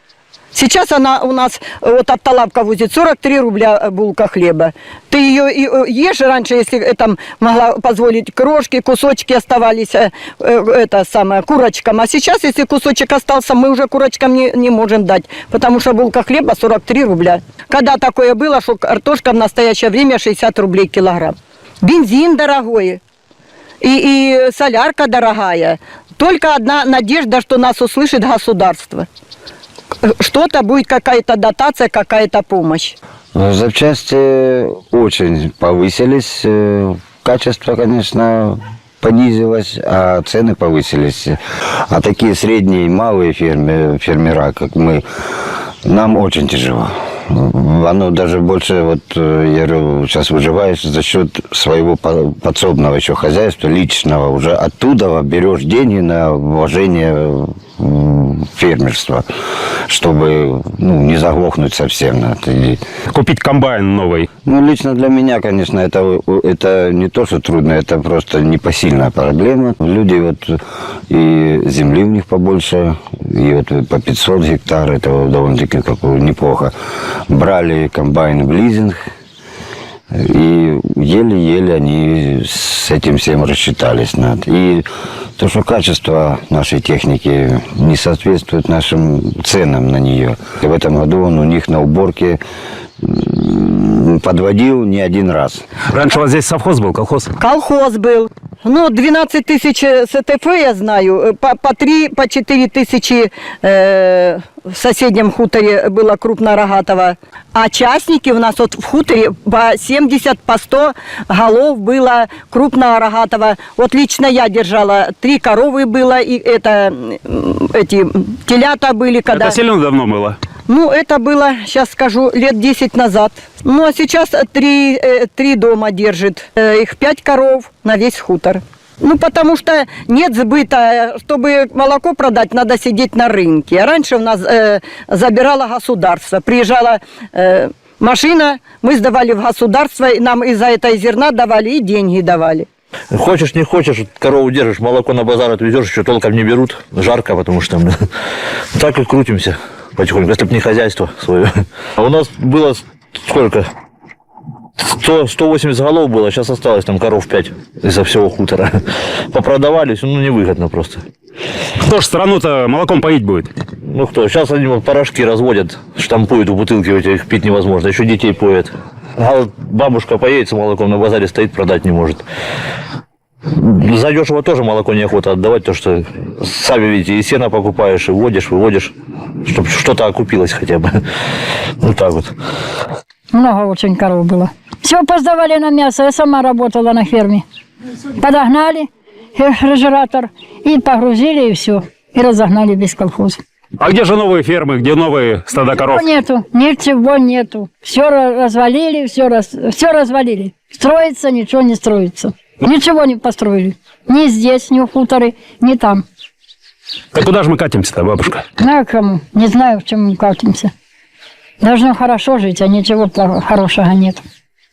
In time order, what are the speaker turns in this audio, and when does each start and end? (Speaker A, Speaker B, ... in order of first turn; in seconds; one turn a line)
Speaker A: 0.5-23.0
Speaker A: 23.8-29.1
Speaker A: 30.0-32.9
Speaker B: 33.3-41.4
Speaker B: 41.9-45.0
Speaker B: 45.8-59.2
Speaker B: 59.9-62.8
Speaker C: 63.1-64.3
Speaker B: 64.5-76.7
Speaker B: 77.3-79.0
Speaker B: 80.1-92.4
Speaker B: 93.0-95.6
Speaker C: 95.9-97.3
Speaker A: 97.4-119.6
Speaker C: 119.3-120.4
Speaker A: 120.7-142.7
Speaker D: 143.2-147.9
Speaker D: 148.8-151.5
Speaker D: 152.0-153.6
Speaker D: 154.8-158.7
Speaker D: 159.3-161.0
Speaker C: 161.8-163.5
Speaker D: 163.9-172.2
Speaker D: 173.6-178.9
Speaker D: 179.5-180.8
Speaker D: 181.8-182.3
Speaker E: 183.3-187.4
Speaker E: 188.1-193.4
Speaker C: 193.8-196.1
Speaker E: 195.7-206.0
Speaker C: 207.1-208.5
Speaker E: 208.6-210.7
Speaker E: 211.6-214.2